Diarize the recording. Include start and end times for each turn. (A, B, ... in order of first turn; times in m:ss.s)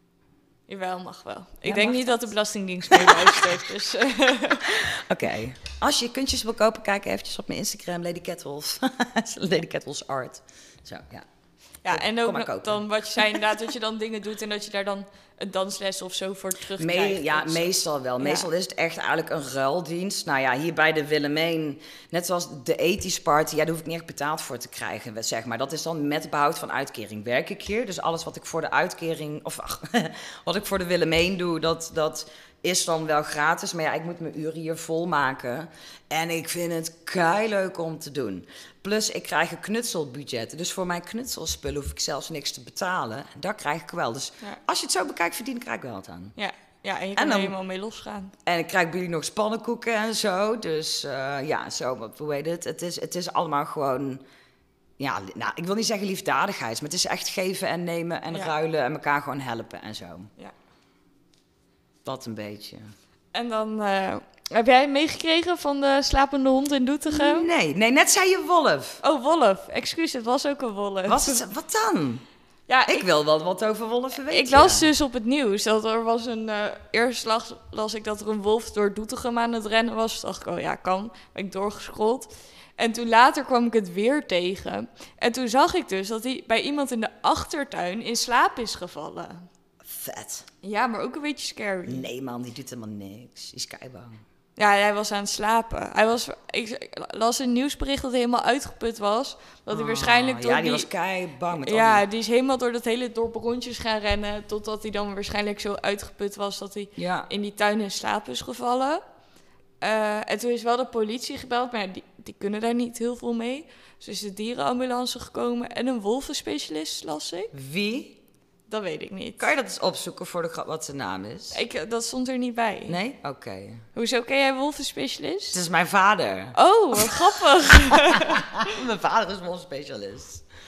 0:00.7-0:04.8 A
0:01.6-0:02.2 B
0:02.9-0:03.2 B
0:04.8-0:11.2 B
0:11.8-0:17.7 A
0:11.9-0:13.4 B
0:16.8-0:46.4 B
0:18.2-0:18.4 A
0:46.4-0:48.3 A
0:47.2-0:47.6 B
0:48.4-0:54.2 B
0:55.0-1:00.3 B
1:02.0-1:02.9 B
1:03.3-1:07.5 A
1:07.1-1:09.0 B
1:09.0-1:11.4 A
1:11.1-1:12.2 B
1:12.7-1:13.0 A
1:12.8-1:14.9 B
1:14.3-1:29.5 A
1:29.8-1:30.4 B
1:30.6-1:32.0 A
1:31.8-1:34.2 B
1:34.6-1:40.9 A
1:39.7-1:42.0 B
1:41.6-1:49.0 A
1:47.0-1:47.3 B
1:49.8-1:57.5 A
1:57.5-1:58.2 B
1:58.7-1:59.5 A
1:59.4-2:01.6 B
2:01.5-2:03.0 A
2:02.9-2:03.8 B
2:03.9-2:05.6 A
2:05.5-2:07.2 B
2:06.5-2:08.5 A
2:08.6-2:10.4 B